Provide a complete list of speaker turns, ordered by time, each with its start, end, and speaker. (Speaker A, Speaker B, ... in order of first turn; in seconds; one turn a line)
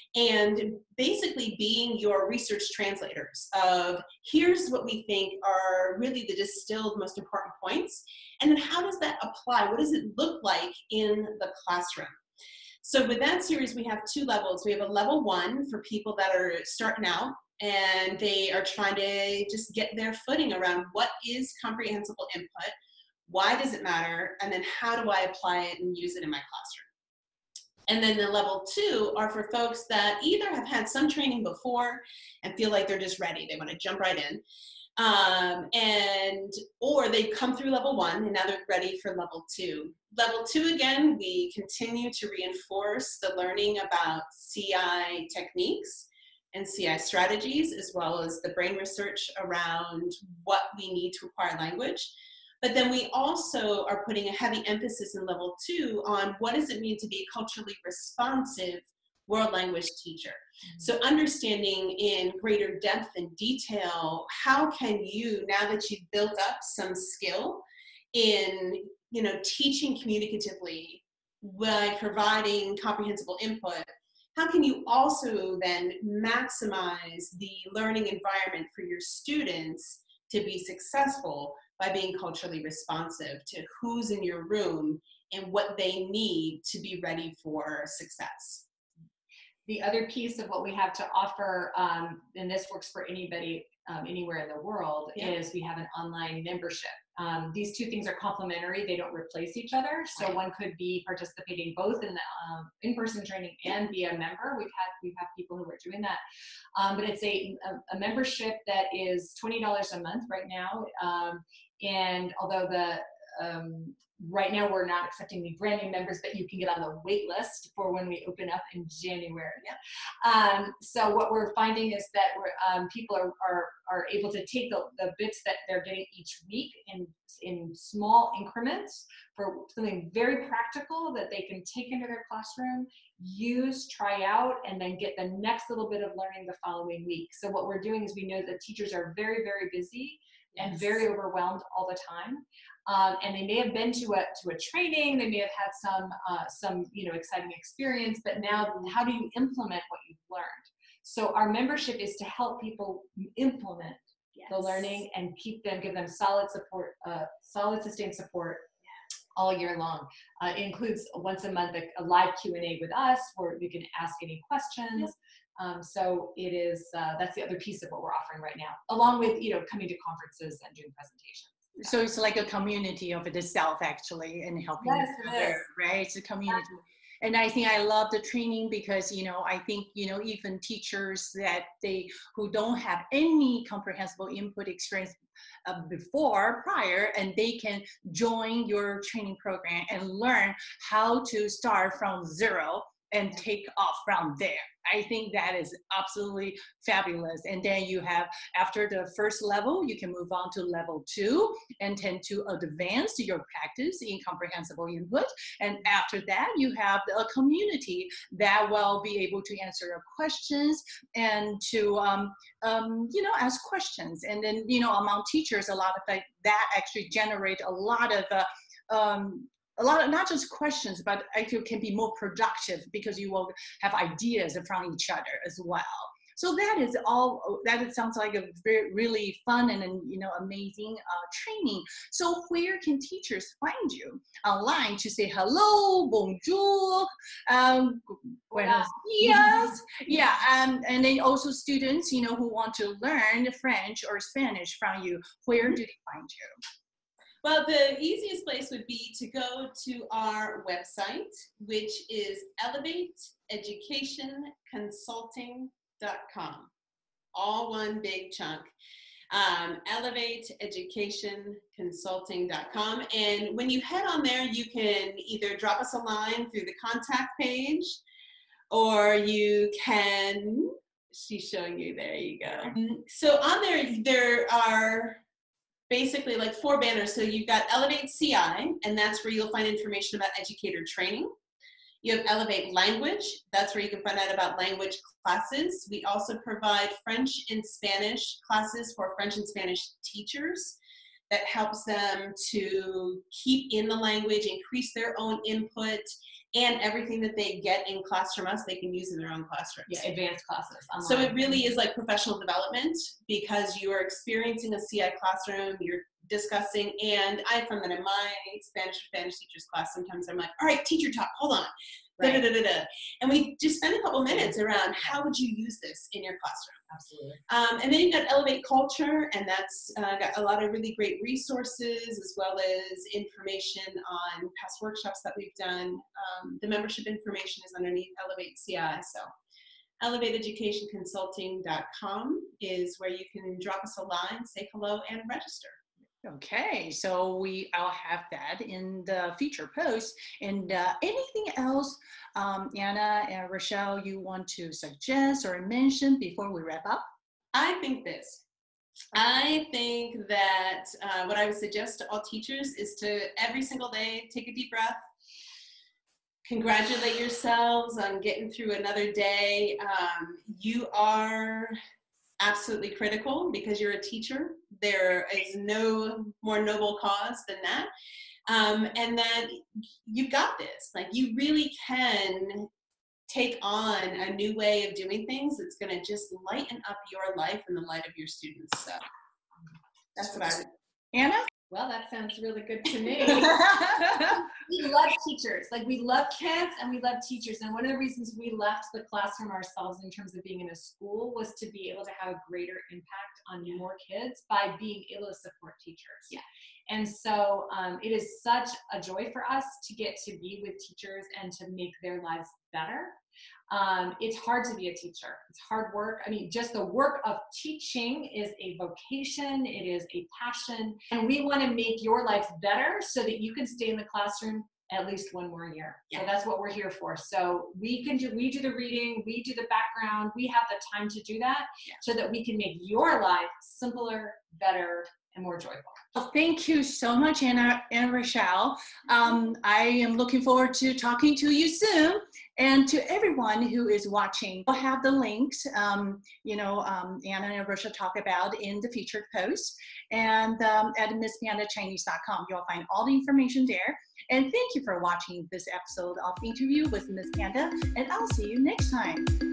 Speaker A: 0.1-12.2
Speaker A: 12.8-22.7
Speaker A: 23.3-26.9
Speaker A: 27.9-34.4
Speaker A: 35.0-67.6
Speaker A: 68.1-88.7
Speaker B: 89.7-106.2
Speaker B: 106.8-119.7
Speaker B: 120.2-158.7
Speaker A: 140.6-141.0
Speaker A: 154.4-154.8
Speaker B: 159.4-172.0
Speaker C: 171.8-246.6
Speaker B: 174.8-175.6
Speaker B: 238.5-239.8
Speaker A: 247.4-256.7
Speaker A: 257.3-258.7
Speaker A: 259.3-268.0
Speaker A: 268.7-275.2
Speaker A: 275.9-281.3
Speaker A: 282.0-290.8
Speaker A: 291.3-300.1
Speaker B: 299.9-301.6
Speaker A: 301.0-316.8
Speaker B: 316.9-317.4
Speaker A: 317.5-329.3
Speaker A: 330.0-335.8
Speaker C: 336.2-347.1
Speaker A: 347.5-348.4
Speaker A: 349.1-355.0
Speaker A: 356.5-361.8
Speaker A: 362.4-367.9
Speaker A: 368.5-372.7
Speaker A: 373.3-379.0
Speaker A: 380.2-380.7
Speaker C: 381.1-381.5
Speaker B: 381.7-403.2
Speaker C: 383.4-384.4
Speaker B: 403.7-426.0
Speaker C: 426.1-449.3